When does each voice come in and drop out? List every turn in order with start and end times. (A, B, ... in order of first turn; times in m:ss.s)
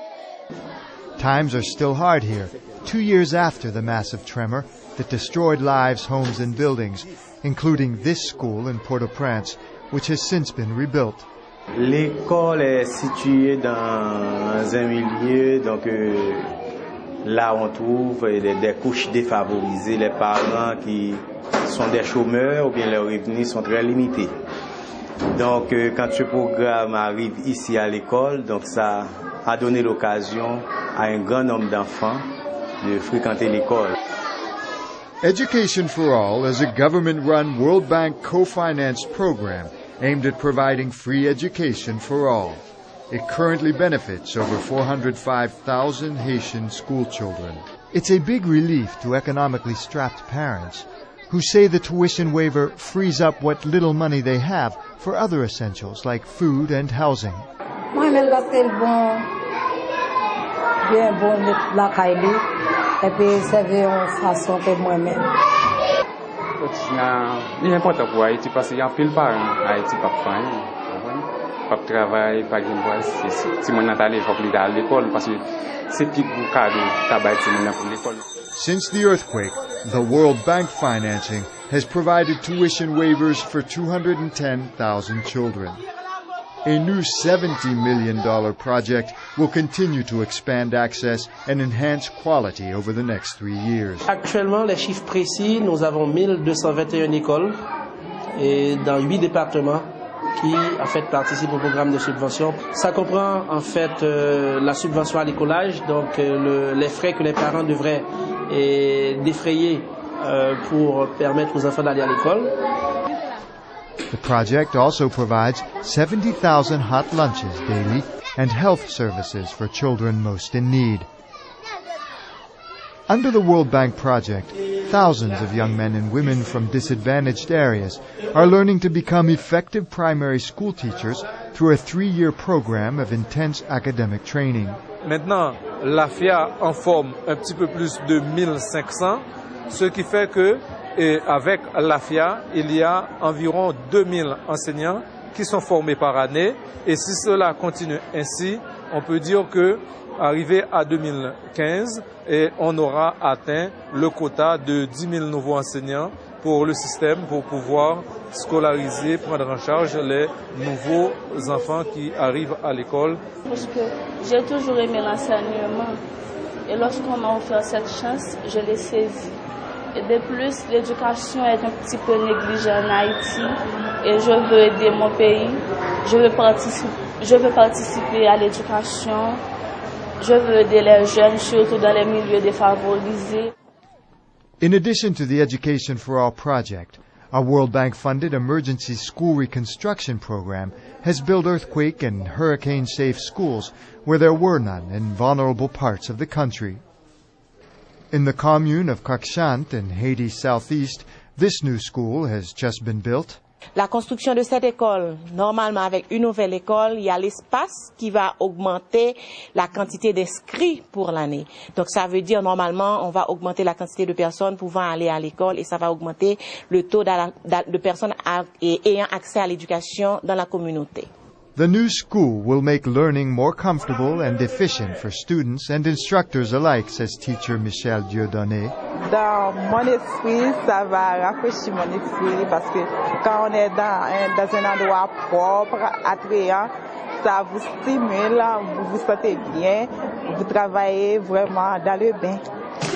0:01.2-0:11.3 A
0:11.8-0:16.5 B
0:17.2-0:24.3 B
0:25.3-0:32.3 B
0:32.8-0:34.0 B
0:35.2-0:57.5 A
0:57.9-0:59.2 C
1:00.9-1:02.4 C
1:03.0-1:05.3 C
1:06.6-1:18.2 D
1:18.5-1:25.8 A
1:26.6-1:34.1 A
1:34.1-1:37.6 E
1:38.3-1:52.5 E
1:54.1-2:01.1 A
2:03.1-2:14.8 A
2:15.0-2:43.2 F
2:43.5-2:46.0 G
2:46.7-2:49.4 G
2:50.0-2:59.4 G
3:00.2-3:03.5 G
3:04.6-3:16.8 A
3:18.1-3:23.4 A
3:23.8-3:41.1 H
3:41.6-3:48.7 A
3:49.1-4:02.4 I